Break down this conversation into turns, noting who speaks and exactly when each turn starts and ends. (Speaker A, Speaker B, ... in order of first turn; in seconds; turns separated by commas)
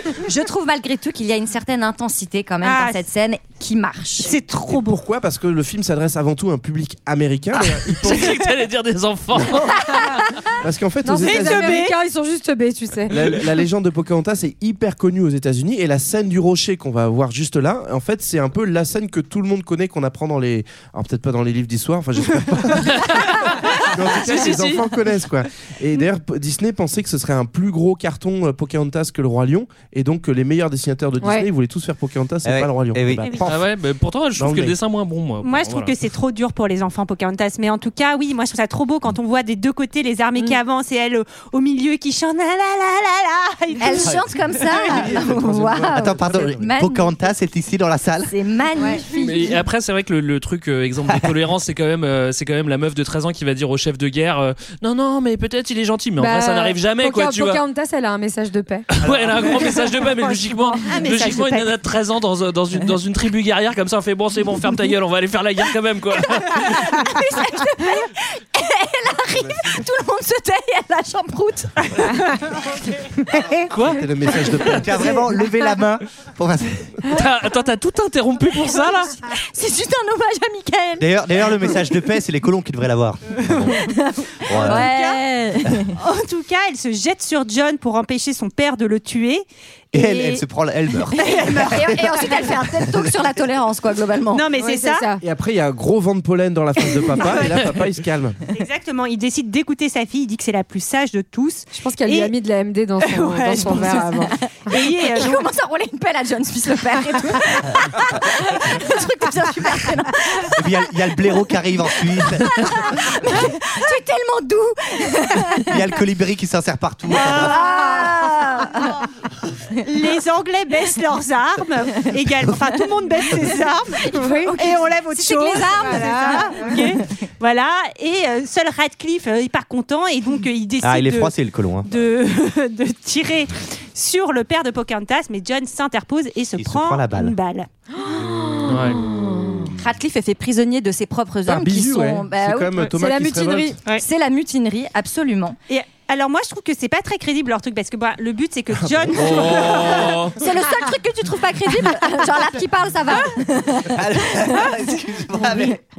Speaker A: 0.2-4.3, Speaker B: 2.6-3.0, Speaker B: 4.2-5.0, Speaker C: 4.7-8.4, Speaker D: 7.9-10.1, Speaker C: 10.6-11.8, Speaker E: 11.0-13.4, Speaker B: 11.2-12.0, Speaker C: 13.1-33.6, Speaker D: 22.8-24.9, Speaker E: 31.2-31.5, Speaker F: 32.5-33.5, Speaker D: 33.4-35.9, Speaker C: 34.4-34.8, Speaker B: 35.4-44.8, Speaker A: 43.8-47.2, Speaker C: 44.8-46.5, Speaker F: 45.9-48.3, Speaker A: 48.3-49.6, Speaker E: 48.8-49.6, Speaker D: 49.2-57.6, Speaker E: 56.2-58.9, Speaker D: 58.9-67.0, Speaker F: 59.0-59.3, Speaker E: 59.5-60.9, Speaker B: 60.8-61.7, Speaker A: 66.4-71.7, Speaker C: 69.5-69.7, Speaker D: 73.7-74.0, Speaker C: 73.8-75.2, Speaker F: 74.7-76.9, Speaker D: 77.1-79.2, Speaker A: 79.2-81.9, Speaker F: 81.0-83.8, Speaker A: 83.8-85.9, Speaker B: 84.5-85.2, Speaker F: 84.5-84.9, Speaker B: 86.0-90.4, Speaker F: 89.9-93.1, Speaker B: 91.1-92.5, Speaker A: 91.2-94.5, Speaker B: 94.3-95.1, Speaker E: 94.6-95.2, Speaker C: 95.2-98.4, Speaker B: 97.2-97.5, Speaker B: 98.5-102.3, Speaker E: 101.7-104.3, Speaker B: 103.0-104.1, Speaker A: 103.6-110.6, Speaker B: 104.7-105.5, Speaker F: 110.5-112.8, Speaker A: 112.0-115.8, Speaker F: 115.7-117.6, Speaker B: 117.1-118.0, Speaker A: 117.1-119.0, Speaker B: 119.8-131.3, Speaker A: 123.3-126.9, Speaker E: 124.1-124.6, Speaker E: 125.7-126.8, Speaker F: 130.8-131.9, Speaker B: 131.8-137.7, Speaker F: 136.6-137.4, Speaker E: 138.0-139.7, Speaker D: 138.7-139.0, Speaker A: 139.7-142.8, Speaker C: 141.5-143.8, Speaker E: 142.8-143.8, Speaker A: 144.0-145.6, Speaker B: 145.7-150.3, Speaker C: 148.8-149.7, Speaker D: 149.2-150.4, Speaker A: 150.4-154.6, Speaker F: 153.8-155.8, Speaker A: 155.4-155.8